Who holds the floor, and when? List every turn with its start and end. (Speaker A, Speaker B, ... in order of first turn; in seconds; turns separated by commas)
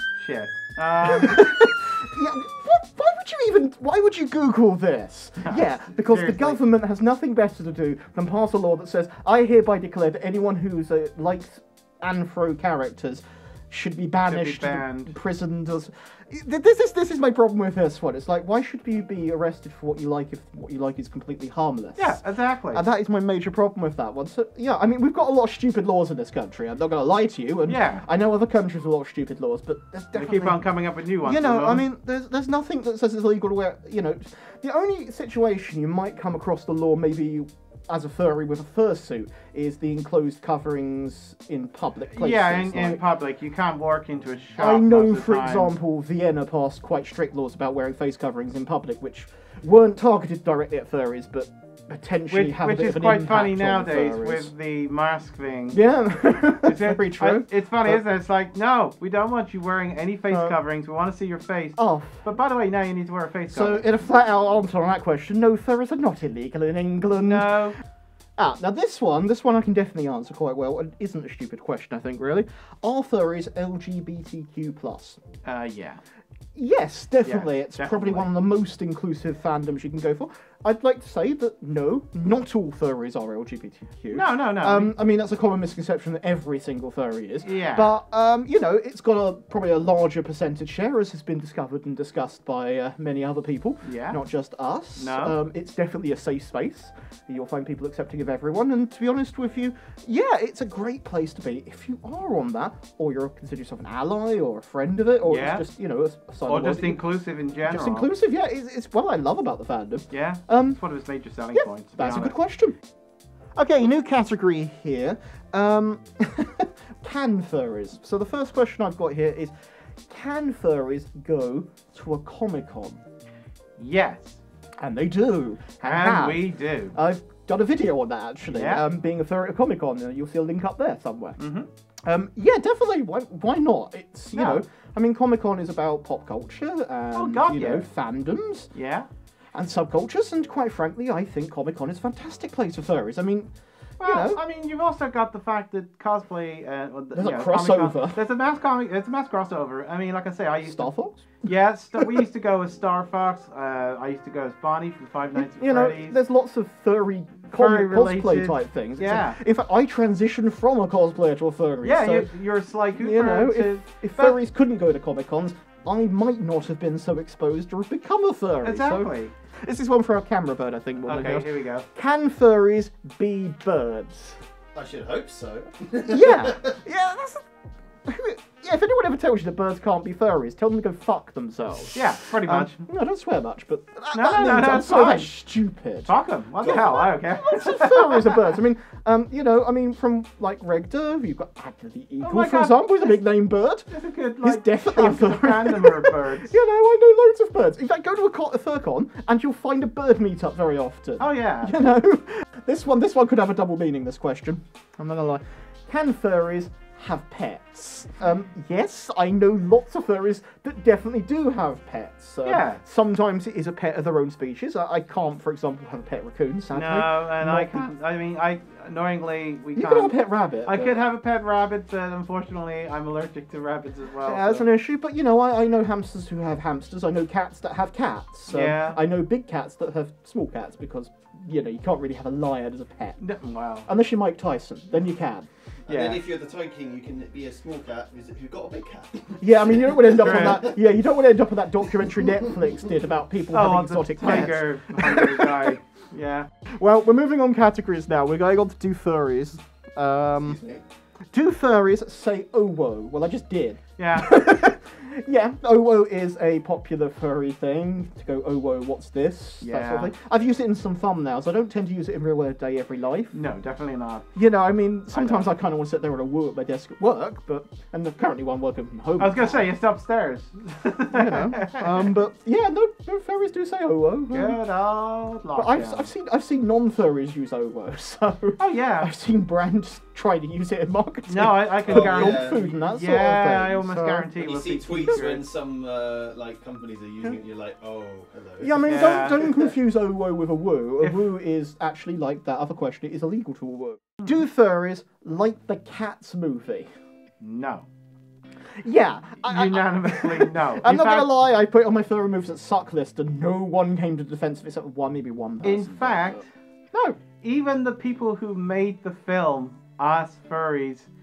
Speaker A: 0.2-1.5, Speaker B: 1.1-43.0, Speaker A: 5.4-6.6, Speaker A: 14.3-15.1, Speaker A: 22.0-22.8, Speaker A: 27.7-28.1, Speaker A: 30.1-31.9, Speaker A: 42.1-45.7, Speaker B: 44.6-54.5, Speaker A: 52.3-55.8, Speaker B: 55.7-58.0, Speaker A: 56.6-63.9, Speaker B: 60.3-60.6, Speaker B: 61.8-62.3, Speaker B: 63.5-67.7, Speaker A: 67.2-67.8, Speaker B: 68.4-75.2, Speaker A: 75.5-76.0, Speaker B: 76.5-107.0, Speaker A: 77.2-78.3, Speaker A: 84.1-84.9, Speaker A: 87.4-87.9, Speaker A: 93.8-94.2, Speaker A: 95.0-95.4, Speaker A: 105.2-105.7, Speaker A: 106.5-108.1, Speaker B: 107.6-110.8, Speaker A: 110.1-112.4, Speaker B: 111.5-112.8, Speaker B: 113.6-119.5, Speaker B: 120.0-123.0, Speaker A: 123.8-124.4, Speaker B: 124.8-131.4, Speaker A: 125.8-127.0, Speaker A: 128.5-128.8, Speaker A: 131.4-131.7, Speaker B: 132.1-138.7, Speaker A: 134.3-134.6, Speaker A: 137.1-137.9, Speaker A: 138.7-139.1, Speaker B: 139.5-144.4, Speaker A: 144.0-156.2, Speaker B: 147.1-148.2, Speaker B: 150.7-151.2, Speaker B: 152.0-152.2, Speaker B: 155.3-162.3, Speaker A: 157.5-159.4, Speaker A: 161.8-164.4, Speaker B: 163.0-174.4, Speaker A: 168.6-169.3, Speaker A: 171.0-171.9, Speaker C: 174.7-176.6, Speaker B: 176.1-177.5, Speaker B: 178.1-186.1, Speaker A: 181.9-182.9, Speaker A: 184.1-185.3, Speaker A: 186.1-188.6, Speaker C: 186.6-187.2, Speaker B: 187.2-217.9, Speaker A: 192.2-193.2, Speaker A: 193.9-196.5, Speaker A: 201.2-201.8, Speaker A: 212.4-212.8, Speaker A: 216.7-224.7, Speaker B: 219.8-221.1, Speaker B: 224.2-233.2, Speaker A: 228.5-229.0, Speaker A: 233.2-233.9, Speaker B: 233.8-235.5, Speaker C: 235.9-240.8, Speaker A: 235.9-236.2, Speaker B: 239.4-245.8, Speaker A: 240.0-240.7, Speaker A: 243.5-246.5, Speaker B: 246.8-250.7, Speaker C: 250.5-250.8, Speaker B: 251.3-263.4, Speaker A: 254.0-254.4, Speaker A: 259.6-260.1, Speaker A: 263.3-264.4, Speaker B: 264.3-269.7, Speaker A: 265.1-265.5, Speaker A: 269.2-272.1, Speaker B: 271.1-274.6, Speaker A: 274.3-276.1, Speaker B: 275.6-284.3, Speaker A: 278.6-279.1, Speaker A: 281.3-285.5, Speaker C: 281.9-282.7, Speaker C: 284.4-289.7, Speaker B: 284.9-285.2, Speaker B: 288.6-296.9, Speaker A: 288.8-289.4, Speaker A: 291.0-291.3, Speaker A: 297.4-297.9, Speaker B: 298.8-307.2, Speaker A: 299.4-301.3, Speaker A: 305.6-306.5, Speaker A: 307.4-311.1